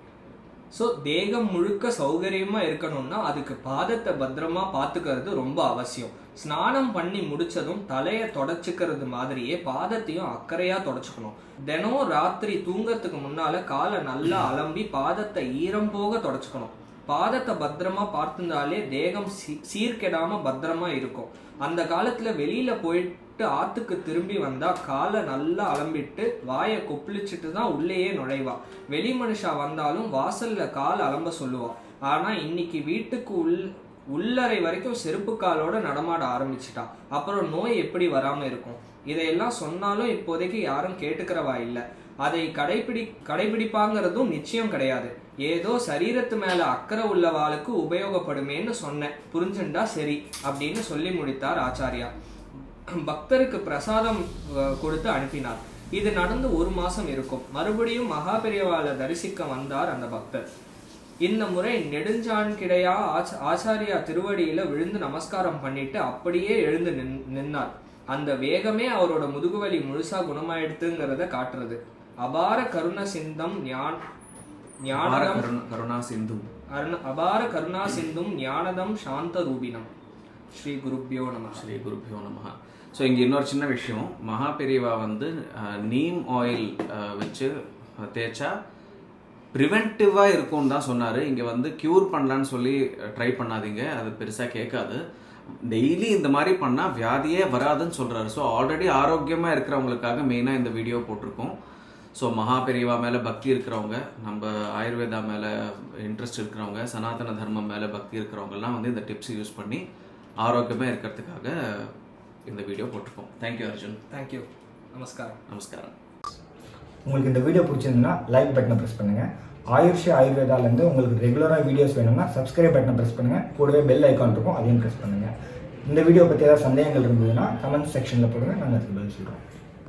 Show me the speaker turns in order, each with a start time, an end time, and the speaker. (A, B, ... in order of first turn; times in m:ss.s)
0:00.7-0:52.1 A
0:53.0-1:00.4 A
1:01.2-1:14.0 A
1:14.8-1:15.5 A
1:15.0-1:16.5 B
1:16.7-1:19.9 A
1:20.5-1:21.6 A
1:21.6-1:27.5 B
1:28.1-1:28.5 B
1:29.6-1:35.0 B
1:35.7-1:41.6 B
1:42.2-1:49.8 B
1:50.4-1:51.9 B
1:52.5-1:54.0 B
1:54.1-1:55.4 A
1:55.5-1:55.9 B
1:57.0-2:05.3 C
2:05.9-2:09.4 C